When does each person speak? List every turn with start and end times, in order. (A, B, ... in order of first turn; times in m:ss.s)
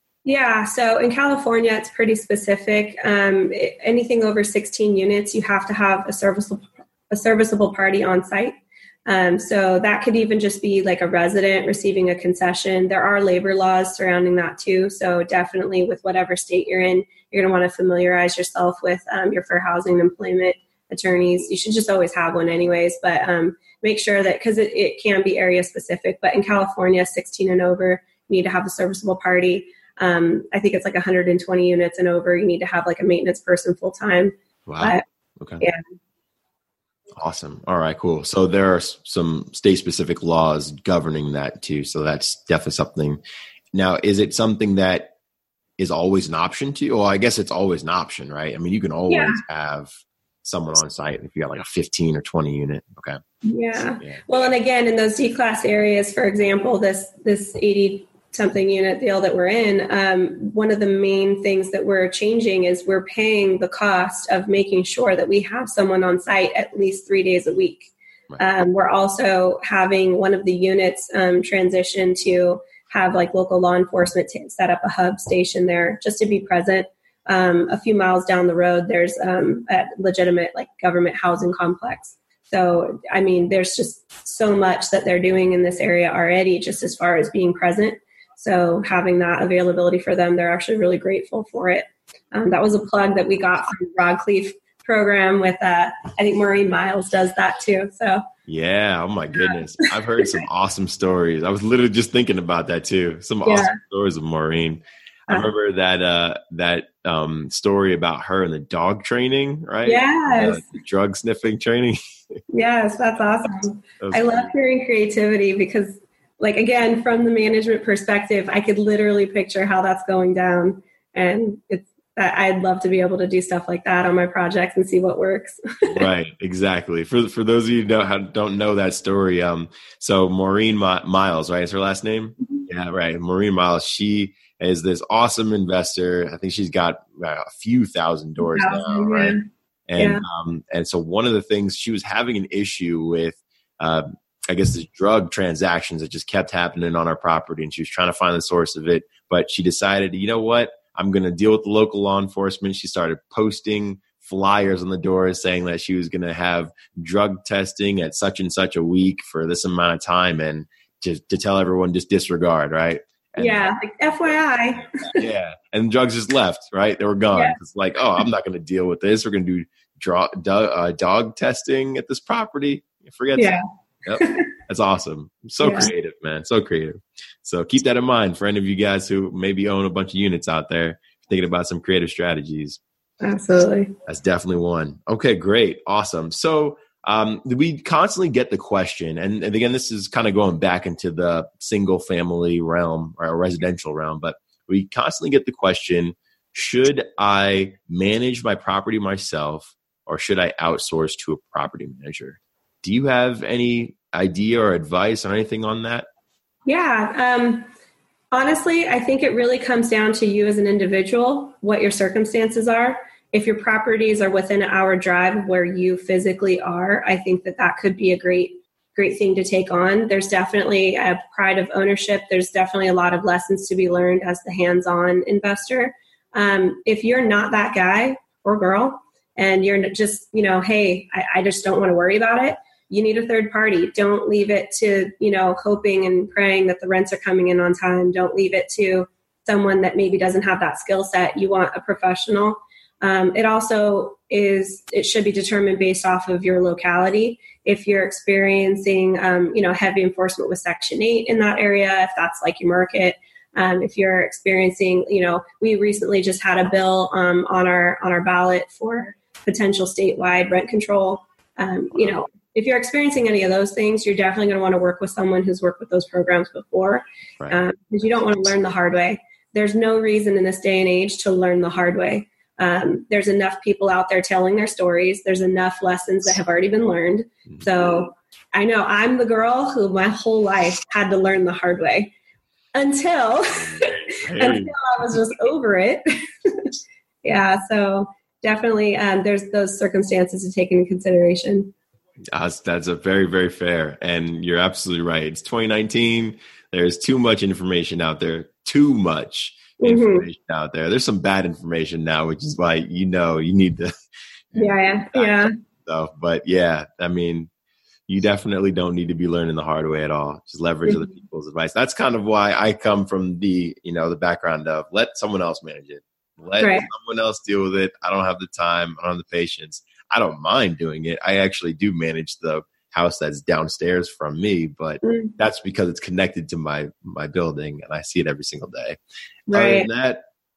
0:00.2-0:08.5 A
0:09.1-0:35.0 A
0:34.6-0:35.6 B
0:37.2-0:43.2 B
0:43.7-0:45.1 B
0:45.8-0:53.2 B
0:49.1-0:49.4 A
0:53.4-1:38.2 A
0:54.0-0:54.2 B
1:38.4-1:52.4 B
1:43.4-1:43.8 A
1:49.8-1:50.6 A
1:52.5-2:06.1 A
1:54.0-1:54.5 B
2:05.9-2:43.6 B
2:18.4-2:19.4 A
2:20.0-2:20.2 A
2:43.4-2:45.1 A
2:45.1-3:02.8 B
2:54.2-2:54.4 A
2:55.6-2:55.9 A
3:03.2-3:03.9 A
3:04.1-3:26.1 B
3:26.6-3:27.7 A
3:28.3-4:42.1 A
4:42.7-4:51.7 A
4:43.6-4:44.8 B
4:52.3-5:03.9 B
4:59.8-5:00.2 A
5:04.5-5:07.5 B
5:04.6-5:05.5 A
5:08.1-5:29.0 B
5:10.8-5:11.1 A
5:16.6-5:16.9 A
5:25.0-5:25.3 A
5:29.5-5:29.9 A
5:29.5-5:30.2 B